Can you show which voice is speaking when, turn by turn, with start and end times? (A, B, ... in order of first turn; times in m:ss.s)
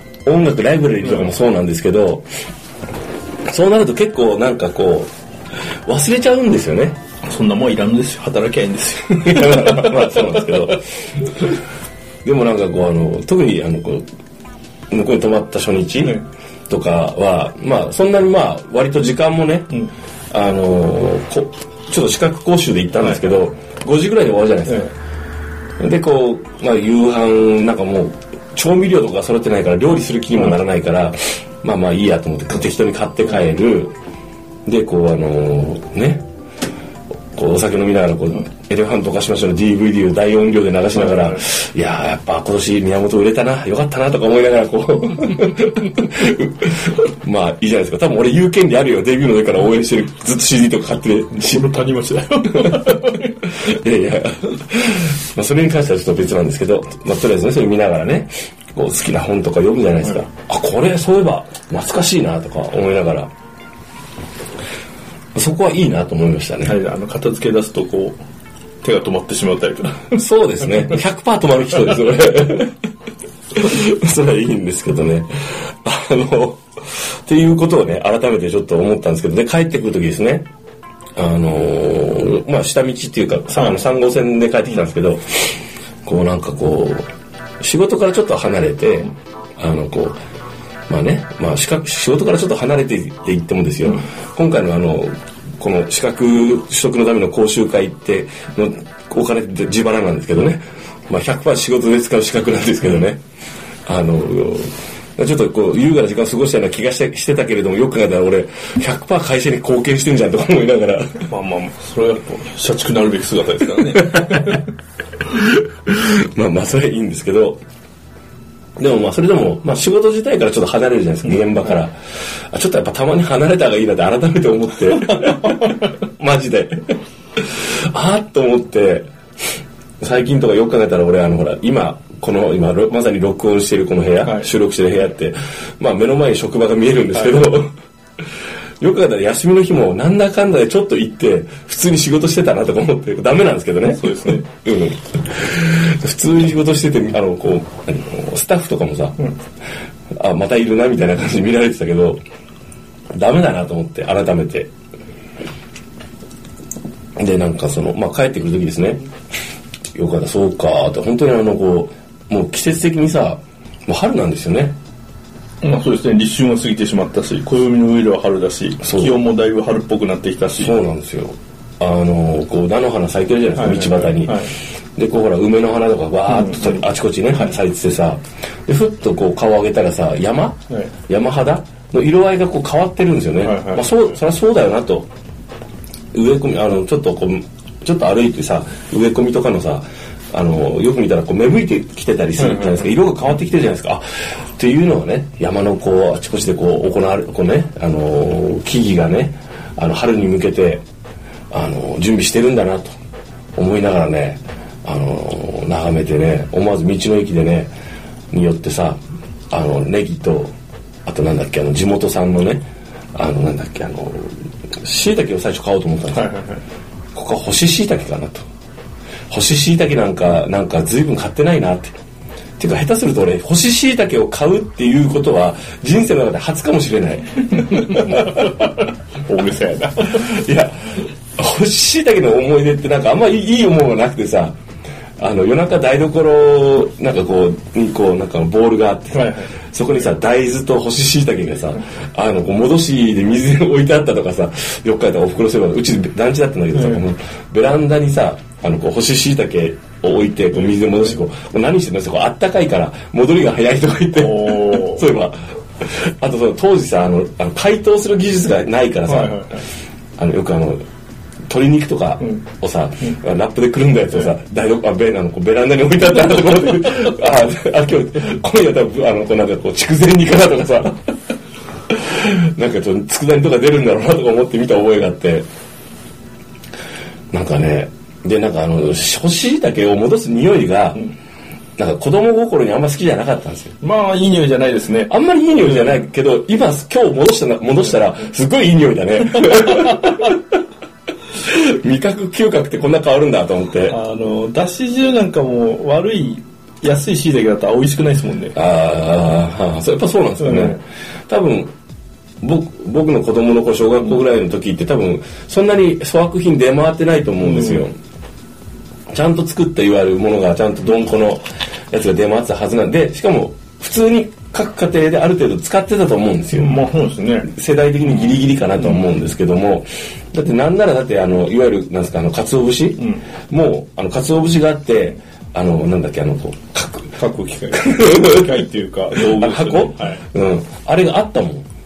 0:00.2-0:02.3 A
0:03.4-0:05.1 A
0:05.8-0:07.0 A
0:07.2-0:10.2 B
0:09.2-0:11.3 A
0:12.2-0:14.0 A
0:14.9-0:24.9 A
0:23.0-0:23.4 B
0:24.7-0:24.9 B
0:25.8-0:33.9 A
0:34.6-0:36.2 A
0:37.3-0:51.7 A
0:40.9-0:41.4 B
0:51.3-0:53.3 B
0:52.6-1:03.3 A
1:05.3-1:06.8 A
1:06.6-1:08.2 B
1:08.8-1:10.2 B
1:10.1-1:12.7 A
1:13.6-1:20.4 A
1:21.2-1:27.1 A
1:23.6-1:23.8 B
1:27.6-1:30.2 A
1:30.9-1:43.2 A
1:43.8-1:51.3 A
1:51.3-1:54.6 B
1:53.9-1:54.6 A
1:55.2-1:57.6 A
1:58.8-2:02.0 A
2:02.5-2:09.1 A
2:10.0-2:17.7 A
2:17.1-2:17.5 B
2:18.8-2:29.2 A
2:23.9-2:24.5 B
2:30.1-2:32.2 A
2:33.1-2:34.7 A
2:37.2-2:39.0 A
2:39.9-2:44.8 A
2:45.6-2:50.8 B
2:48.8-2:49.2 A
2:50.6-2:54.4 A
2:53.5-2:54.5 B
2:55.0-3:05.1 A
2:56.3-2:56.8 B
3:03.4-3:04.0 B
3:06.1-3:14.0 A
3:12.4-3:12.9 B
3:14.6-3:20.8 A
3:21.5-3:23.0 A
3:23.6-3:27.7 A
3:28.3-3:30.5 A
3:31.0-3:36.3 A
3:36.1-3:36.6 B
3:37.1-3:38.4 A
3:39.3-3:42.0 A
3:42.6-3:48.7 A
3:49.2-3:50.2 B
3:50.1-3:54.5 A
3:55.2-4:19.4 A
3:59.1-3:59.5 B
4:06.7-4:07.0 B
4:10.5-4:11.1 B
4:14.1-4:15.1 B
4:19.0-4:19.6 B
4:20.2-4:20.8 A
4:21.5-4:31.0 A
4:31.9-4:35.4 A
4:37.3-4:41.1 A
4:41.8-4:43.7 A
4:43.8-4:46.0 B
4:45.1-4:50.4 A
4:51.4-4:54.0 A
4:53.8-4:58.6 B
4:58.5-5:01.7 A
5:00.4-5:00.8 B
5:02.4-5:07.9 A
5:07.4-5:07.8 B
5:09.1-5:16.8 A
5:16.5-5:17.5 B
5:17.4-5:27.2 A
5:18.0-5:19.1 B
5:27.2-5:30.2 B
5:27.7-5:28.6 A
5:29.2-5:31.6 A